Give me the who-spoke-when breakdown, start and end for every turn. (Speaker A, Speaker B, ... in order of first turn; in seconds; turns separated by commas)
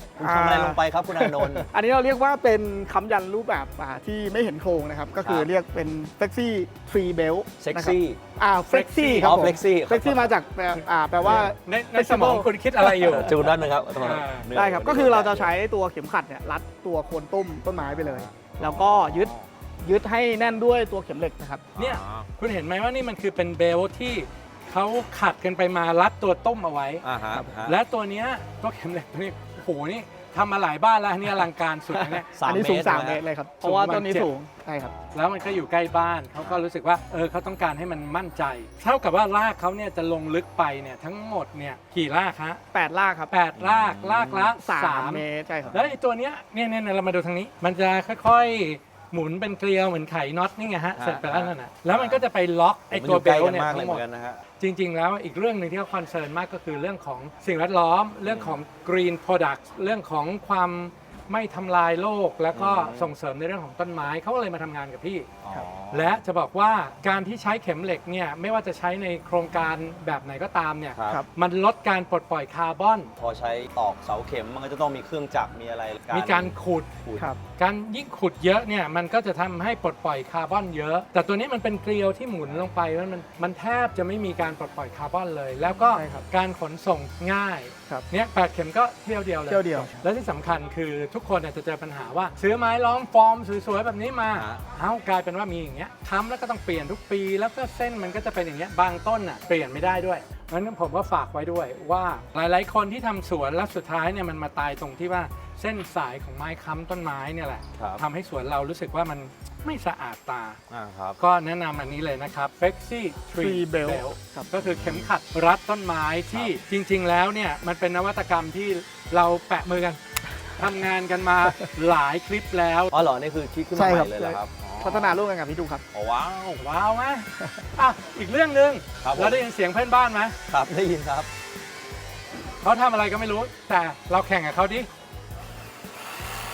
Speaker A: 0.2-1.7, Speaker B: 0.2-13.4, Speaker A: 5.2-5.5, Speaker A: 7.6-8.2, Speaker C: 8.6-9.4, Speaker A: 9.2-10.3, Speaker A: 11.2-11.5, Speaker C: 11.3-14.5, Speaker A: 13.1-15.6, Speaker B: 14.5-21.7, Speaker A: 17.8-19.5, Speaker A: 21.8-22.3, Speaker C: 21.8-27.1, Speaker A: 27.0-27.8, Speaker C: 27.6-32.3, Speaker A: 31.9-33.2, Speaker B: 32.4-34.9, Speaker C: 33.6-34.3, Speaker A: 34.8-35.1, Speaker C: 35.1-42.6, Speaker A: 36.4-36.6, Speaker B: 42.7-43.3, Speaker C: 43.3-54.0, Speaker A: 43.6-44.6, Speaker B: 44.6-45.8, Speaker A: 51.0-52.2, Speaker A: 52.9-54.4, Speaker C: 54.6-73.1, Speaker A: 58.2-58.6, Speaker A: 62.5-63.1, Speaker A: 65.4-66.2, Speaker A: 70.9-71.2, Speaker A: 73.2-76.6, Speaker C: 76.1-110.6, Speaker A: 85.6-86.3, Speaker B: 86.0-86.2, Speaker B: 89.5-89.9, Speaker A: 94.3-94.6, Speaker A: 107.8-108.0, Speaker A: 110.7-111.2, Speaker C: 111.2-123.0, Speaker B: 113.4-114.5, Speaker A: 114.5-115.1, Speaker A: 116.3-116.6, Speaker A: 122.9-125.2, Speaker B: 123.7-125.8, Speaker A: 125.9-126.6, Speaker C: 126.6-130.4, Speaker A: 129.0-129.4, Speaker A: 130.5-131.3, Speaker C: 132.6-134.9